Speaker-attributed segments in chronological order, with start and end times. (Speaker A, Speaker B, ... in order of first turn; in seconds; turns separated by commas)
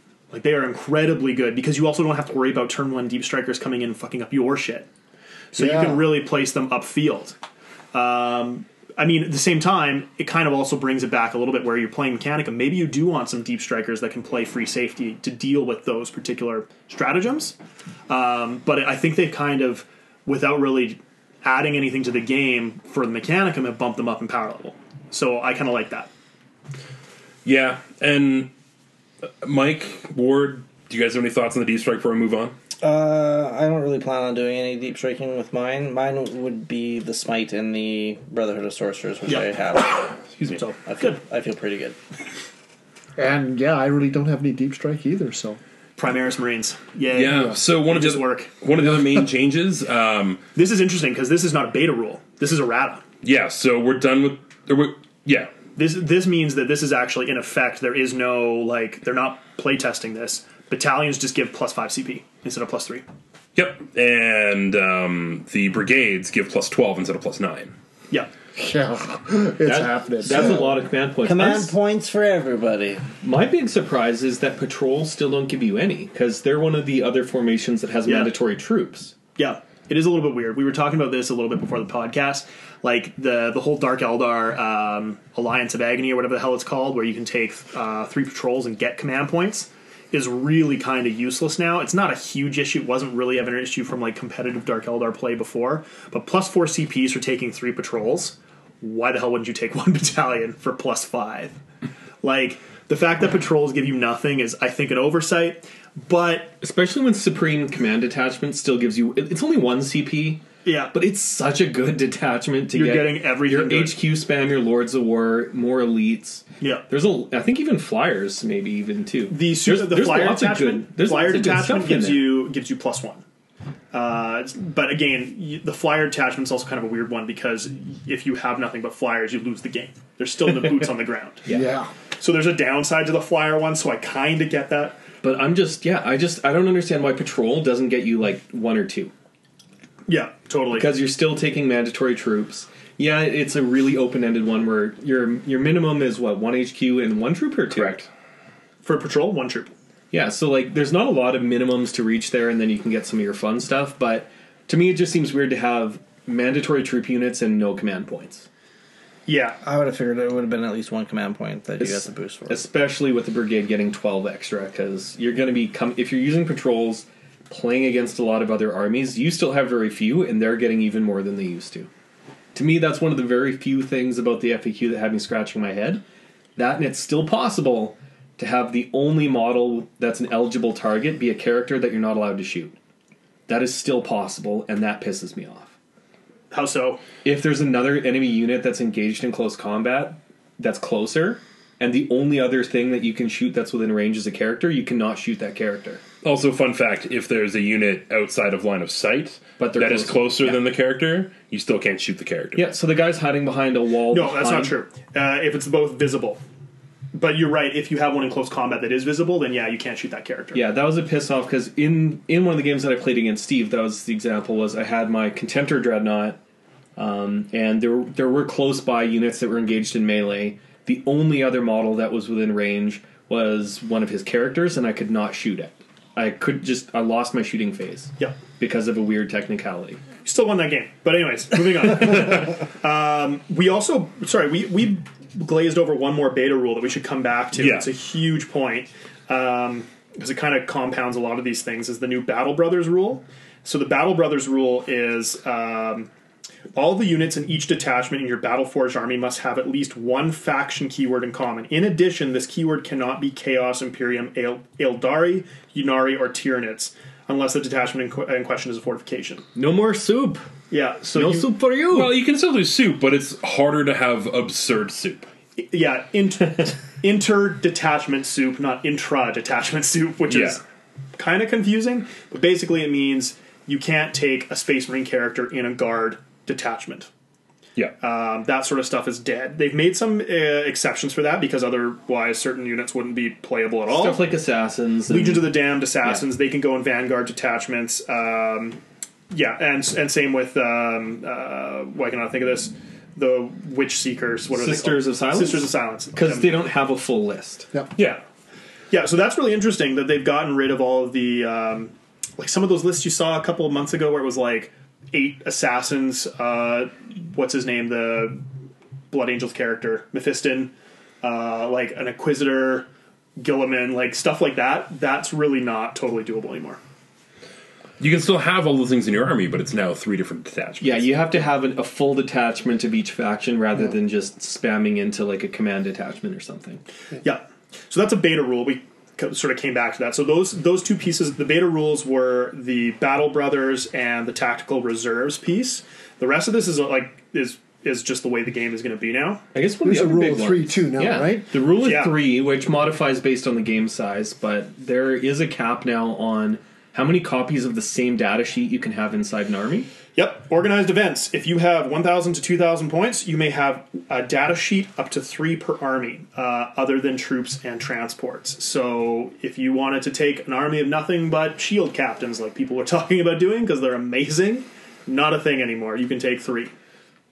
Speaker A: 0.3-4.9, Speaker A: 5.5-7.4, Speaker B: 5.6-6.0, Speaker A: 7.9-17.6, Speaker A: 18.1-26.1, Speaker C: 27.4-28.5, Speaker C: 29.2-32.5, Speaker D: 32.8-40.2, Speaker A: 39.3-41.2, Speaker D: 40.9-42.0, Speaker B: 43.2-45.6, Speaker A: 46.0-48.5, Speaker C: 47.1-50.4, Speaker A: 50.6-53.0, Speaker C: 53.2-55.5, Speaker A: 55.8-63.0, Speaker C: 63.5-67.7, Speaker B: 68.5-70.8, Speaker E: 69.6-71.7, Speaker D: 71.2-73.1, Speaker E: 73.2-79.2, Speaker A: 78.0-78.3, Speaker A: 79.4-101.6, Speaker A: 102.2-106.6, Speaker E: 106.6-122.4, Speaker A: 110.7-110.9, Speaker A: 112.7-114.0, Speaker A: 116.6-116.8, Speaker A: 119.3-123.2, Speaker A: 123.9-131.5, Speaker B: 131.5-131.9, Speaker A: 132.2-135.0, Speaker E: 135.2-139.1, Speaker A: 140.1-140.9, Speaker E: 140.7-148.1, Speaker C: 147.7-148.1, Speaker A: 148.8-149.7, Speaker E: 150.1-158.5, Speaker A: 159.3-159.6, Speaker D: 159.6-162.6, Speaker E: 161.8-171.9, Speaker E: 172.5-176.0, Speaker E: 176.6-182.8, Speaker E: 183.5-185.7, Speaker A: 186.5-187.0, Speaker E: 187.2-196.0, Speaker C: 196.2-202.7, Speaker E: 199.6-200.6, Speaker E: 202.6-204.7, Speaker A: 204.1-206.4, Speaker A: 207.1-210.6, Speaker E: 210.5-216.4, Speaker E: 217.0-230.1, Speaker A: 230.2-246.1, Speaker C: 237.6-237.9, Speaker A: 246.7-259.5, Speaker E: 259.6-260.4, Speaker A: 260.7-261.5, Speaker E: 261.1-262.2, Speaker C: 261.9-265.3, Speaker A: 265.6-270.6, Speaker C: 270.3-270.6, Speaker A: 271.2-277.1, Speaker A: 278.0-284.2, Speaker E: 283.9-286.2, Speaker A: 285.1-296.6, Speaker E: 294.5-297.7, Speaker A: 298.9-308.4, Speaker A: 309.1-316.8, Speaker C: 318.0-321.1, Speaker E: 320.8-326.8, Speaker A: 327.2-339.4, Speaker E: 339.5-349.9, Speaker B: 339.8-341.5, Speaker A: 341.8-342.2, Speaker A: 350.1-366.7